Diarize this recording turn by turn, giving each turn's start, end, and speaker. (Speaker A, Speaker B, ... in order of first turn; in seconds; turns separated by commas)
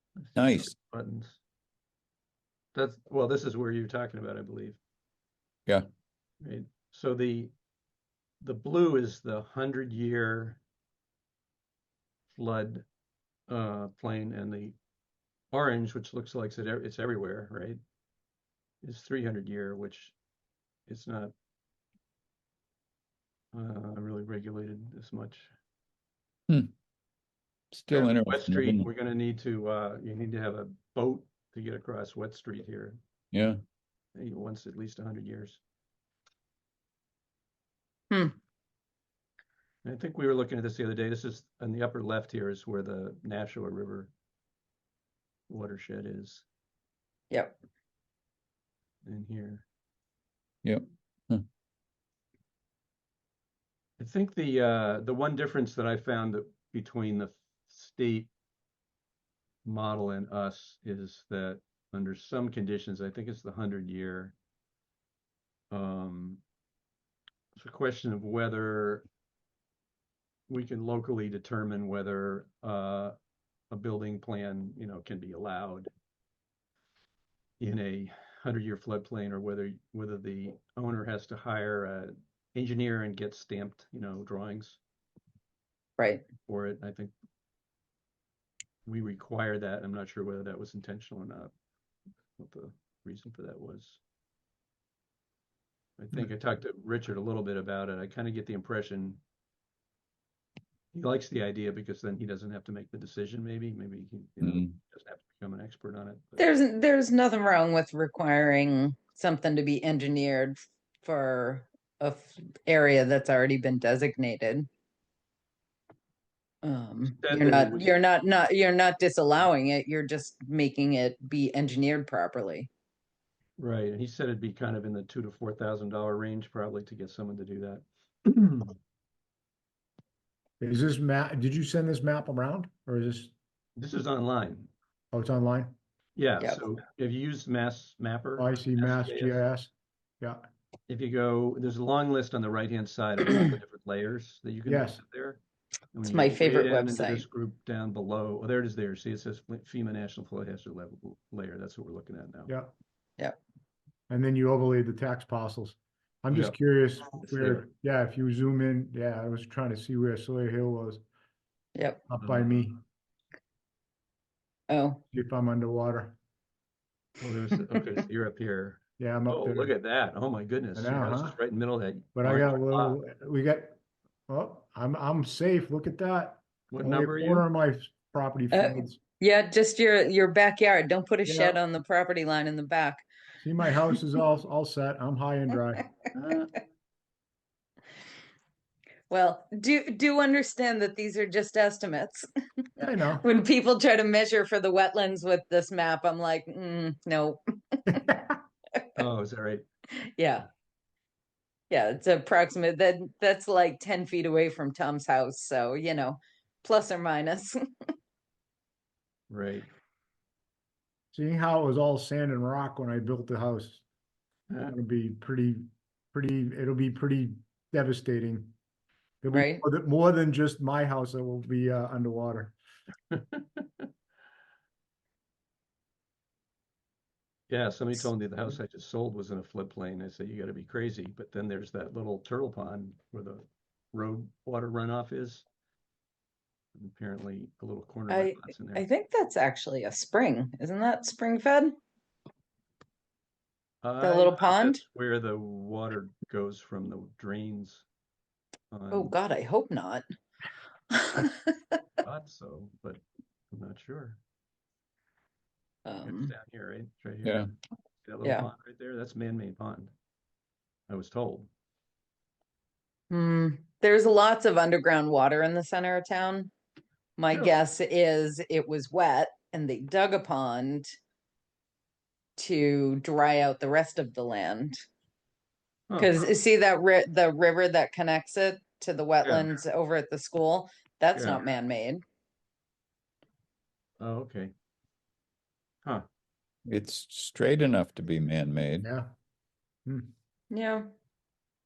Speaker A: 0.2-1.4, Speaker B: 0.4-0.7, Speaker A: 2.8-4.8, Speaker A: 6.4-7.5, Speaker A: 8.4-10.6, Speaker A: 12.3-12.8, Speaker A: 13.5-14.8, Speaker A: 15.5-17.8, Speaker A: 18.8-20.1, Speaker A: 20.9-21.3, Speaker A: 23.5-25.5, Speaker B: 27.7-28.9, Speaker A: 27.9-33.0, Speaker B: 33.3-33.6, Speaker A: 34.1-35.6, Speaker A: 39.8-44.1, Speaker A: 45.5-46.5, Speaker C: 47.3-47.5, Speaker A: 49.0-49.6, Speaker B: 50.6-51.4, Speaker A: 54.0-58.3, Speaker A: 59.6-64.3, Speaker A: 65.7-66.4, Speaker A: 67.6-69.1, Speaker A: 70.5-73.2, Speaker A: 73.7-75.9, Speaker A: 77.6-84.8, Speaker C: 86.0-86.2, Speaker A: 86.5-87.1, Speaker A: 88.9-91.5, Speaker A: 92.4-94.0, Speaker A: 96.0-99.2, Speaker A: 100.9-106.5, Speaker C: 106.4-114.7, Speaker C: 116.6-122.7, Speaker A: 117.1-117.9, Speaker A: 123.6-127.9, Speaker D: 130.6-133.3, Speaker A: 133.8-134.7, Speaker D: 135.1-135.7, Speaker A: 136.2-139.4, Speaker D: 138.4-140.4, Speaker A: 140.9-145.4, Speaker D: 144.7-145.0, Speaker A: 145.9-152.5, Speaker C: 146.1-147.2, Speaker D: 152.5-152.7, Speaker D: 154.1-161.0, Speaker A: 157.2-157.7, Speaker C: 161.8-162.0, Speaker D: 162.1-162.8, Speaker A: 162.2-162.6, Speaker C: 164.7-165.0, Speaker D: 165.1-166.2, Speaker A: 167.2-173.0, Speaker D: 169.0-169.7, Speaker D: 170.8-171.4, Speaker D: 172.2-179.0, Speaker A: 176.7-177.5, Speaker C: 178.5-183.1, Speaker D: 181.2-181.6, Speaker D: 183.4-185.9, Speaker A: 186.2-186.5, Speaker C: 189.1-192.3, Speaker D: 192.8-193.2, Speaker C: 193.2-198.0, Speaker D: 197.9-198.4, Speaker A: 199.0-199.7, Speaker C: 200.2-200.5, Speaker C: 201.7-207.6, Speaker A: 209.3-209.7, Speaker D: 211.1-213.8, Speaker A: 214.5-214.8, Speaker D: 214.7-218.5, Speaker D: 219.2-222.6, Speaker C: 219.3-219.6, Speaker A: 223.1-223.9, Speaker A: 227.5-235.5, Speaker A: 236.8-238.9, Speaker C: 238.1-241.7, Speaker A: 243.8-247.9, Speaker C: 244.0-244.8, Speaker A: 248.7-249.2, Speaker C: 248.9-250.1, Speaker C: 250.9-251.8, Speaker A: 252.0-254.2, Speaker C: 255.9-256.3, Speaker A: 256.0-257.5, Speaker A: 258.1-259.9, Speaker C: 258.2-258.5, Speaker A: 260.9-261.5, Speaker C: 263.1-266.5, Speaker C: 267.2-270.9, Speaker C: 272.4-274.8, Speaker A: 275.9-276.2, Speaker C: 276.0-282.0, Speaker A: 279.2-279.5, Speaker A: 281.1-281.4, Speaker A: 284.0-284.5, Speaker B: 286.7-288.9, Speaker D: 288.8-289.1, Speaker D: 289.9-290.1, Speaker C: 290.5-290.9